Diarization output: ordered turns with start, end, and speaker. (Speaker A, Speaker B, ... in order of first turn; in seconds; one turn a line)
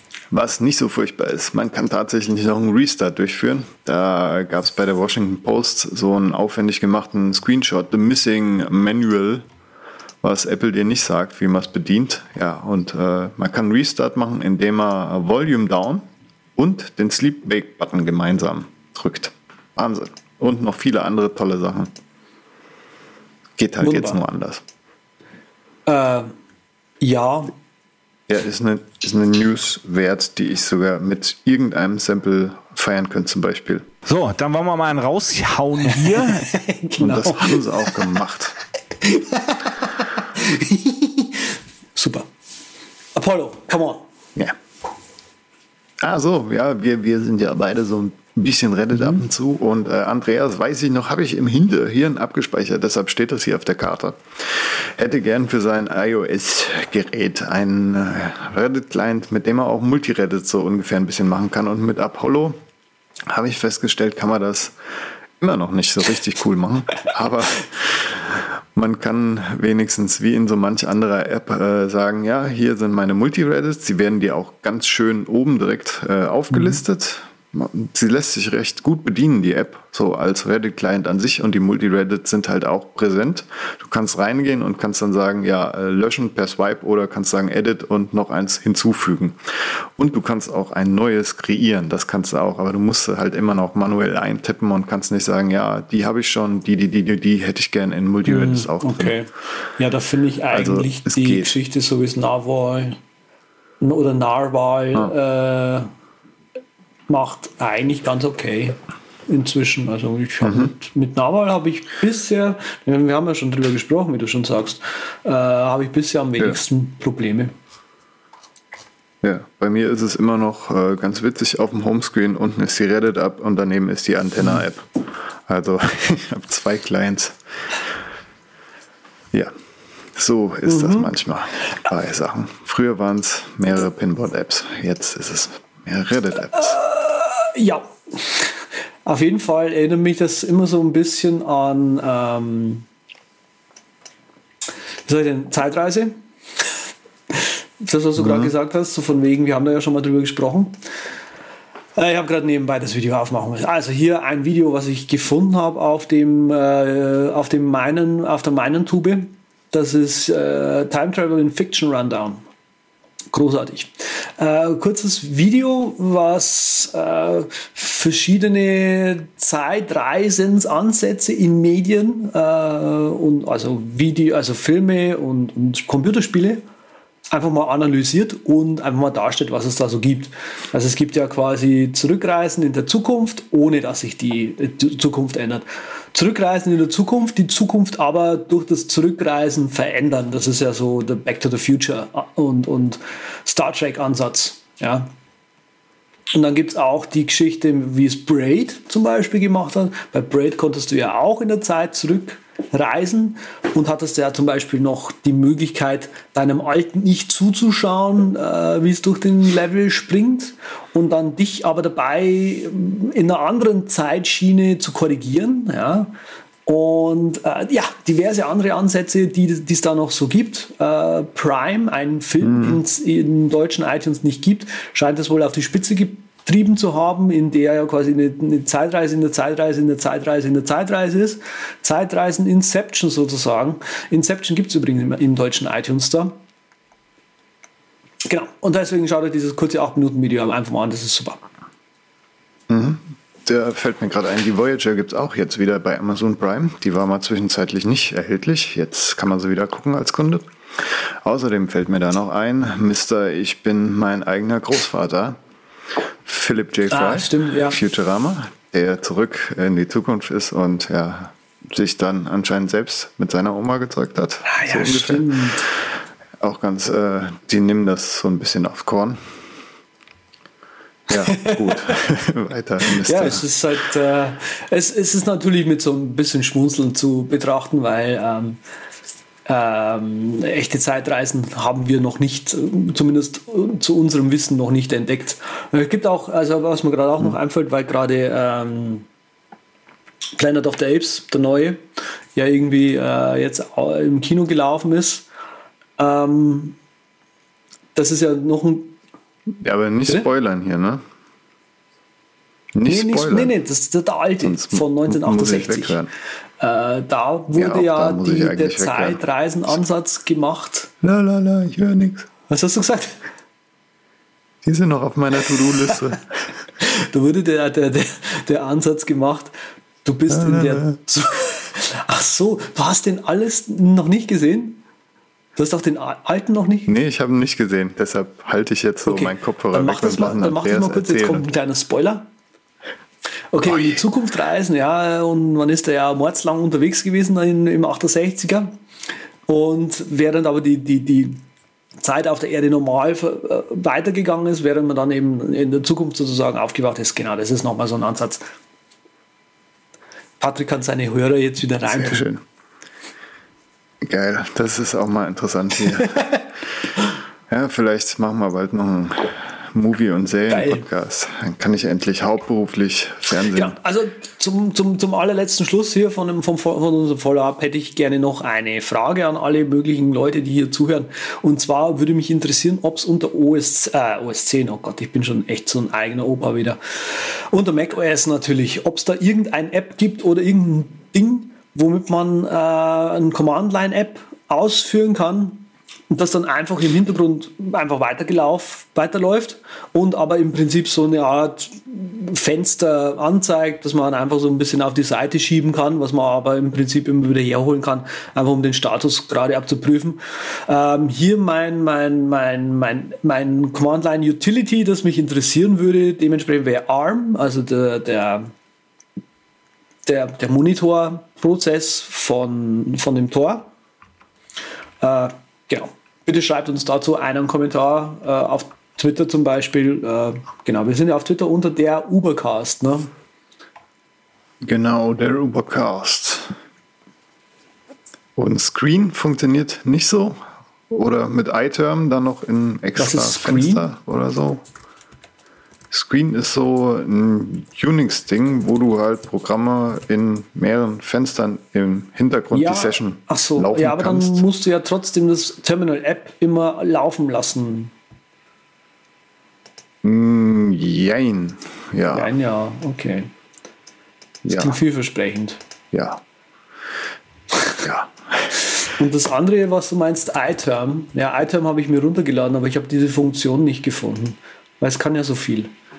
Speaker A: 0.3-9.4
Speaker A: 10.2-21.9
Speaker A: 23.6-24.6
Speaker B: 23.8-24.2
Speaker B: 25.9-26.3
Speaker B: 27.0-27.5
Speaker A: 28.3-33.9
Speaker C: 34.0-36.5
Speaker B: 36.1-38.0
Speaker A: 37.0-38.6
Speaker B: 39.0-42.3
Speaker B: 43.1-44.1
Speaker A: 46.0-62.6
Speaker B: 49.0-49.2
Speaker A: 63.3-64.8
Speaker A: 65.4-99.2
Speaker B: 76.5-76.8
Speaker B: 98.2-103.0
Speaker A: 100.5-101.5
Speaker B: 103.8-105.9
Speaker B: 107.1-117.5
Speaker A: 110.4-110.7
Speaker A: 119.2-127.4
Speaker A: 130.2-136.8
Speaker B: 130.7-131.2
Speaker B: 136.5-142.9
Speaker B: 145.1-146.8
Speaker B: 147.3-150.8
Speaker A: 148.2-148.5
Speaker B: 151.9-162.4
Speaker B: 163.3-176.6
Speaker B: 177.3-195.1
Speaker B: 196.3-216.1
Speaker B: 216.7-236.4
Speaker A: 222.4-222.8
Speaker B: 238.2-241.4
Speaker A: 242.7-255.4
Speaker A: 256.2-265.8
Speaker B: 256.9-257.8
Speaker B: 264.5-265.6
Speaker A: 266.4-269.2
Speaker A: 271.1-273.5
Speaker B: 271.3-271.9
Speaker B: 272.9-278.6
Speaker B: 279.5-289.1
Speaker B: 290.4-291.8
Speaker B: 292.4-295.3
Speaker B: 296.0-296.8
Speaker B: 297.9-298.9
Speaker A: 299.6-301.0
Speaker A: 302.8-303.5
Speaker B: 302.9-306.0
Speaker A: 304.4-306.1
Speaker B: 306.6-310.9
Speaker A: 307.5-309.2
Speaker A: 311.0-312.3
Speaker B: 312.5-313.2
Speaker A: 314.6-316.5
Speaker B: 316.8-324.8
Speaker A: 320.3-321.0
Speaker B: 325.6-326.9
Speaker A: 326.9-331.5
Speaker B: 329.1-332.3
Speaker B: 333.5-338.7
Speaker A: 333.7-333.9
Speaker B: 339.5-341.4
Speaker B: 342.0-348.5
Speaker B: 350.4-352.3
Speaker A: 351.9-352.4
Speaker A: 354.0-356.3
Speaker A: 357.5-363.8
Speaker B: 360.5-360.8
Speaker B: 363.5-408.5
Speaker B: 410.1-413.7
Speaker B: 415.0-423.1
Speaker A: 424.6-426.6
Speaker A: 428.4-430.4
Speaker A: 430.9-434.6
Speaker B: 433.0-433.9
Speaker A: 435.9-444.4
Speaker B: 442.5-447.9
Speaker A: 450.0-452.3
Speaker B: 452.1-453.3
Speaker A: 454.4-454.8
Speaker B: 454.5-455.6
Speaker A: 455.9-456.2
Speaker A: 457.7-458.6
Speaker B: 459.0-465.7